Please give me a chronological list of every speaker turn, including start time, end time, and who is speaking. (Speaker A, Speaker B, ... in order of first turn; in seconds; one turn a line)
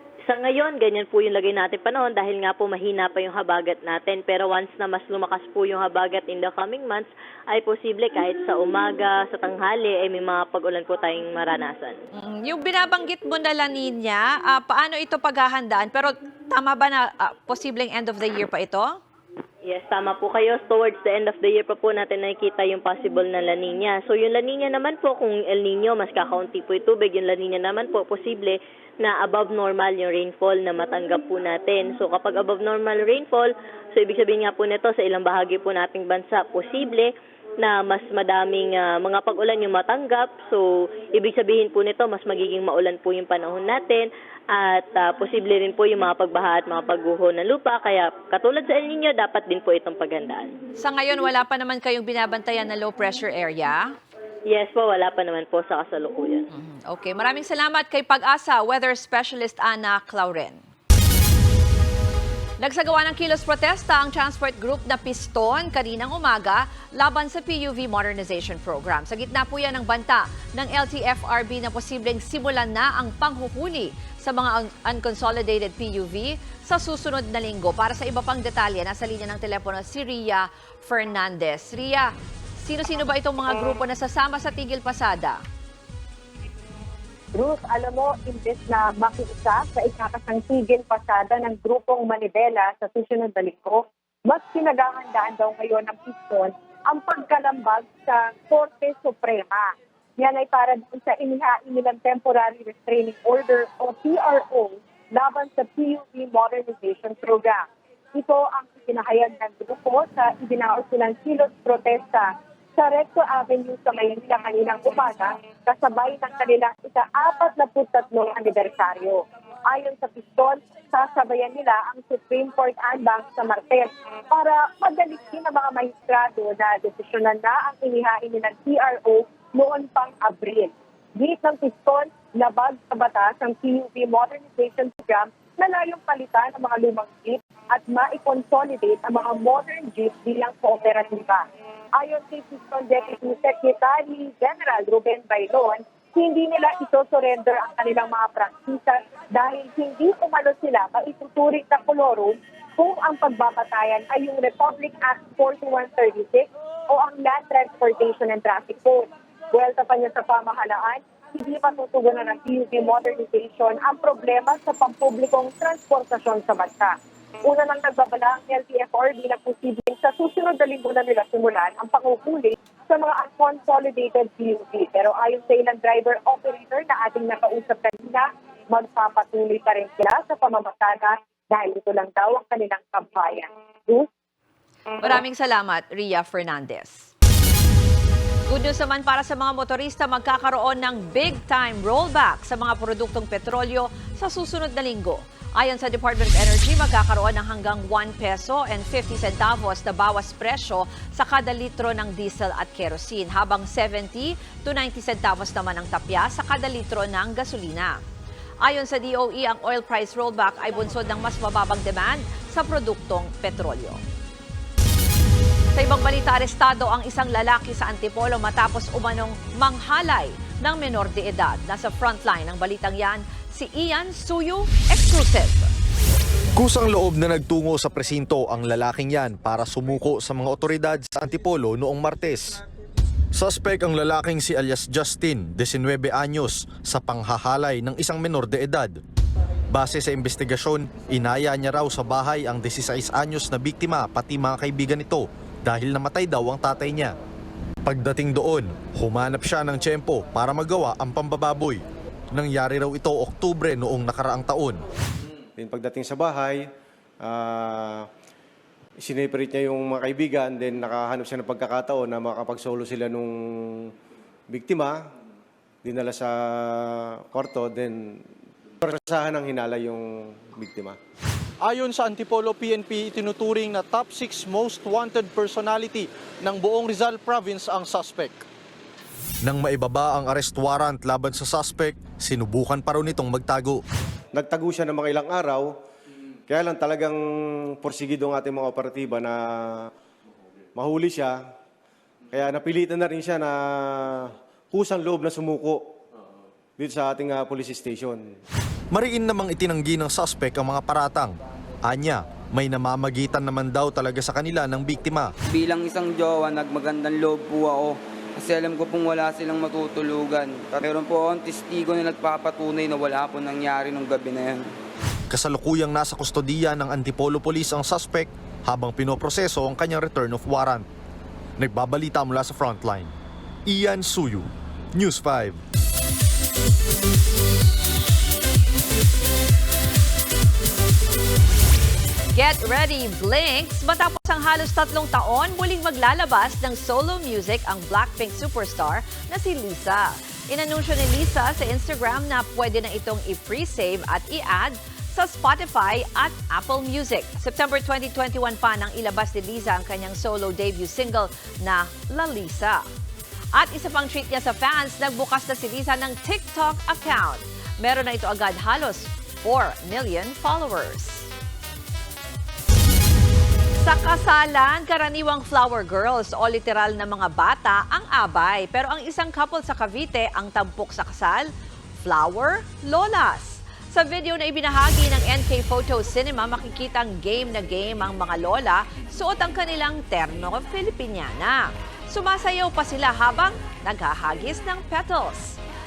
Speaker A: 0.3-12.0
Speaker B: 12.2-19.0
Speaker A: 19.6-50.5
Speaker B: 50.8-53.9
Speaker A: 54.5-56.5
Speaker B: 56.5-60.6
Speaker B: 62.6-85.4
Speaker C: 87.3-107.6
Speaker C: 108.1-141.4
Speaker C: 141.9-166.9
Speaker C: 167.4-184.1
Speaker B: 185.0-187.1
Speaker B: 188.5-208.0
Speaker B: 208.6-214.0
Speaker B: 215.7-225.7
Speaker D: 226.5-232.6
Speaker D: 233.3-239.0
Speaker D: 239.7-247.1
Speaker D: 247.8-254.8
Speaker E: 255.6-256.7
Speaker E: 257.2-258.1
Speaker E: 259.0-263.9
Speaker E: 264.5-265.1
Speaker E: 265.8-268.2
Speaker E: 268.8-271.0
Speaker F: 271.6-278.4
Speaker D: 279.4-283.8
Speaker E: 284.3-285.7
Speaker E: 286.5-289.9
Speaker E: 290.7-291.5
Speaker E: 292.3-295.9
Speaker E: 296.8-298.3
Speaker D: 298.9-305.3
Speaker G: 305.5-314.7
Speaker D: 315.3-320.9
Speaker D: 321.6-323.1
Speaker D: 323.6-325.6
Speaker B: 332.3-352.8
Speaker B: 353.5-361.3
Speaker B: 363.8-385.6